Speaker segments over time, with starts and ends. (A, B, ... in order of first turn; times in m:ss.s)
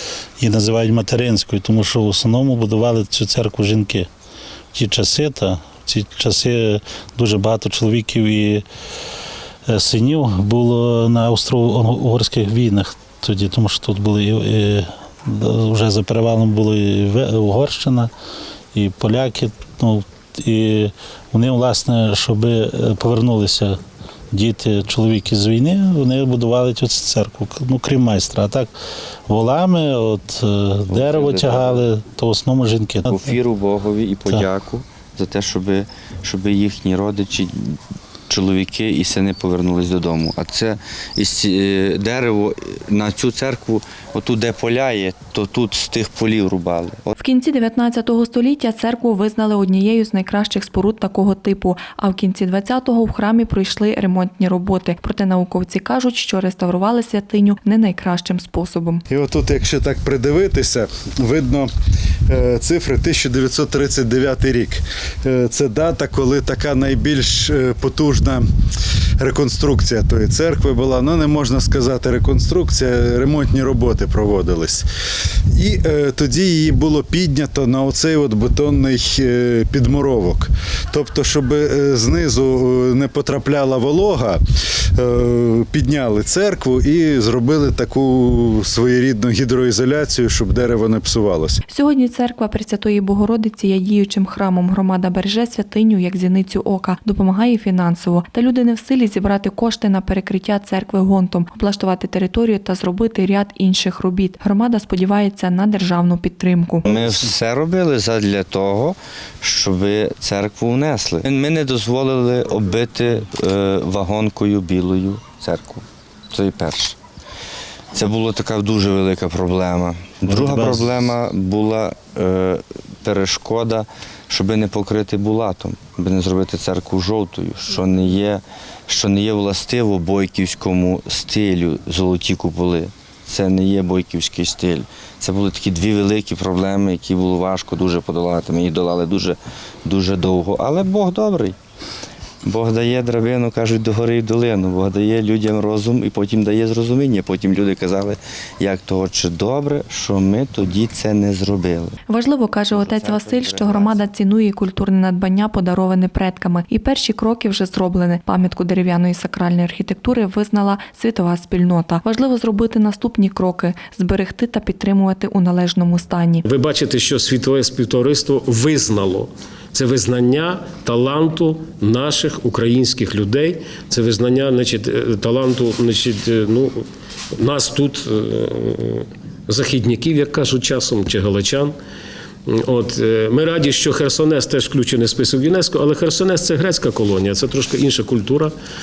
0:00.4-0:04.1 A
0:04.7-0:08.6 A
0:09.6-0:18.1 A
0:18.7-0:23.8 A
0:24.3-0:28.7 A
0:29.3-0:33.3 A
0:30.9-0:31.8 B
0:33.1-0:37.8 B
0:38.3-0:47.1 B
0:47.2-0:59.0 C
0:59.1-1:01.7 D
1:02.3-1:08.5 D
1:09.2-1:14.9 D
1:15.5-1:24.4 D
1:25.0-1:31.6 D
1:31.7-1:46.8 C
1:46.8-1:57.0 B
1:57.9-2:21.6 B
2:00.3-2:01.0 A
2:22.4-2:32.0 B
2:32.1-2:46.4 C
2:32.7-2:34.1 B
2:46.4-3:01.7 E
3:02.5-3:08.5 E